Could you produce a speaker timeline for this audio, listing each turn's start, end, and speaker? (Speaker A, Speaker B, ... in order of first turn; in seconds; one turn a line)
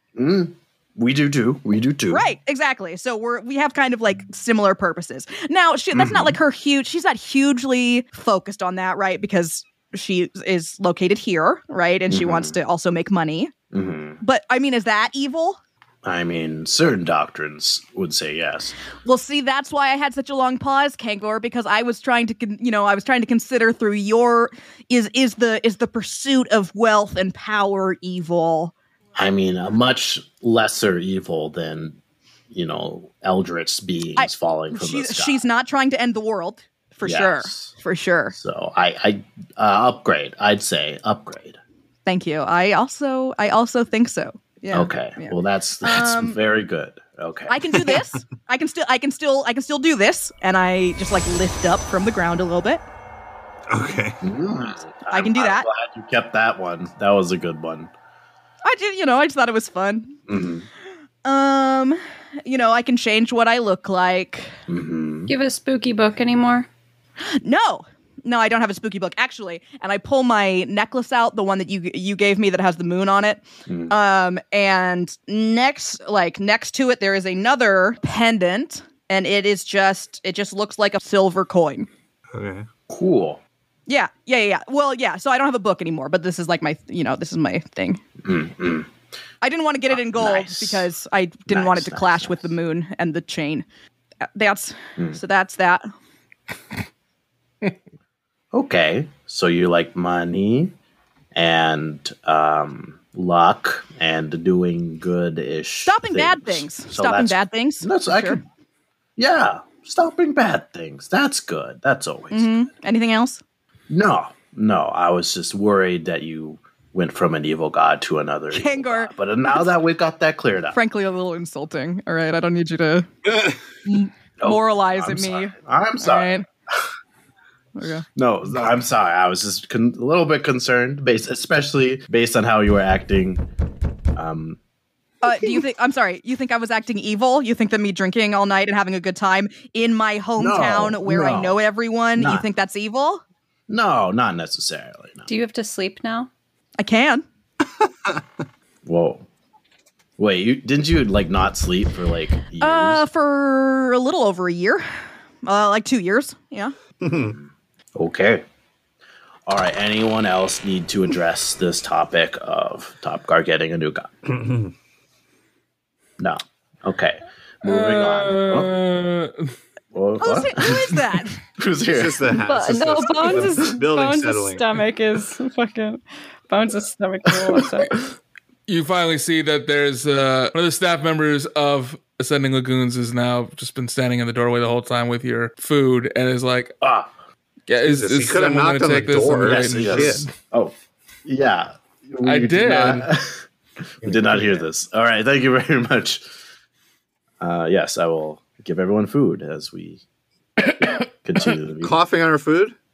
Speaker A: 0.1-2.2
Speaker B: 2.1-13.5
Speaker A: 5.9-6.4
Speaker A: 12.1-12.6
Speaker A: 13.7-14.2
Speaker B: 14.2-15.6
Speaker A: 16.0-18.7
Speaker B: 19.0-28.7
Speaker A: 29.2-32.0
Speaker A: 32.5-35.4
Speaker B: 34.2-38.4
Speaker A: 37.0-37.7
Speaker A: 38.3-41.6
Speaker B: 42.0-46.4
Speaker A: 44.7-47.8
Speaker B: 47.5-52.8
Speaker C: 47.9-48.2
Speaker C: 53.7-54.2
Speaker A: 54.2-57.9
Speaker B: 55.1-55.7
Speaker B: 58.6-60.2
Speaker A: 60.3-60.7
Speaker B: 61.2-64.5
Speaker A: 64.7-65.3
Speaker D: 65.3-66.7
Speaker B: 67.2-81.9
Speaker A: 73.7-74.0
Speaker C: 82.3-82.7
Speaker A: 82.9-83.4
Speaker B: 83.9-88.0
Speaker A: 88.2-88.9
Speaker B: 89.4-93.7
Speaker A: 89.9-90.9
Speaker A: 91.5-92.4
Speaker B: 94.3-95.8
Speaker A: 98.5-100.7
Speaker A: 101.3-108.4
Speaker B: 105.8-108.4
Speaker A: 109.2-112.7
Speaker B: 112.3-113.4
Speaker A: 113.9-120.8
Speaker B: 118.5-119.7
Speaker B: 120.7-123.1
Speaker C: 123.3-123.5
Speaker B: 123.8-126.5
Speaker A: 124.4-126.3
Speaker B: 127.8-128.0
Speaker A: 128.1-133.5
Speaker A: 134.1-134.6
Speaker B: 135.2-143.2
Speaker A: 140.4-141.6
Speaker A: 142.2-142.4
Speaker A: 143.7-145.3
Speaker D: 145.3-146.3
Speaker B: 146.8-147.2
Speaker C: 147.8-148.2
Speaker A: 148.8-149.2
Speaker A: 150.2-153.0
Speaker B: 152.6-154.8
Speaker B: 155.4-156.7
Speaker C: 157.0-157.3
Speaker A: 157.1-158.4
Speaker A: 159.4-164.2
Speaker C: 164.3-164.7
Speaker A: 166.2-168.7
Speaker E: 167.6-169.5
Speaker A: 169.9-171.0
Speaker B: 170.2-171.3
Speaker A: 171.6-172.3
Speaker C: 171.9-174.7
Speaker D: 172.4-178.0
Speaker A: 177.4-177.8
Speaker E: 178.7-186.8
Speaker A: 186.8-187.1
Speaker E: 187.7-190.3
Speaker C: 187.8-190.3
Speaker A: 189.4-190.7
Speaker A: 191.2-193.4
Speaker E: 192.2-193.1
Speaker A: 194.0-196.2
Speaker C: 194.0-194.6
Speaker A: 197.4-200.0
Speaker A: 200.7-201.9
Speaker C: 201.8-202.7